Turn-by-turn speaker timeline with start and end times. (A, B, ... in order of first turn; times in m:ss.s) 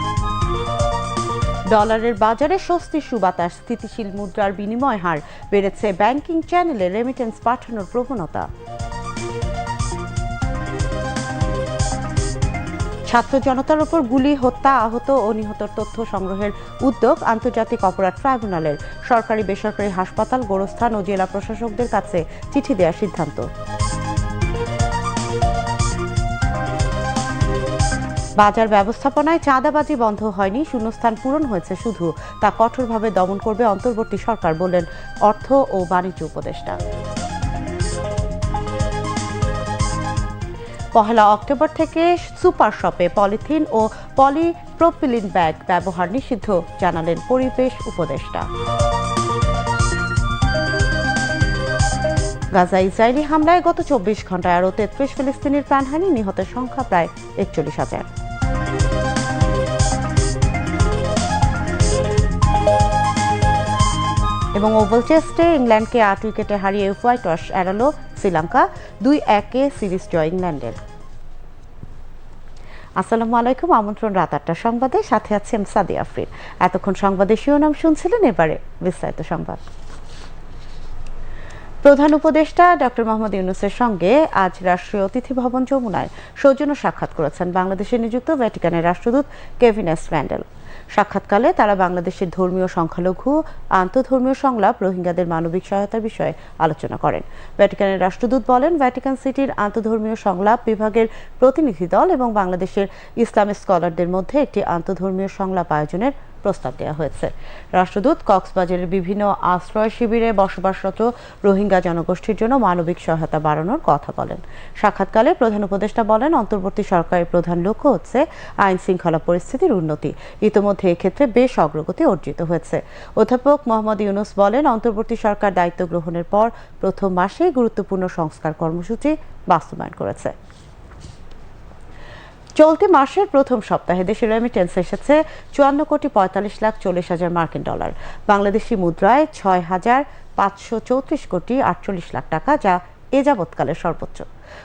0:01.7-0:08.5 A
0:13.1-0:23.4 A
0:28.4-0:36.8 A
0:41.0-0:48.5 A
0:52.6-0:58.1 A
1:04.6-1:10.8 A
1:13.0-1:19.6 A
1:21.8-2:10.3 A
2:12.6-2:24.3 A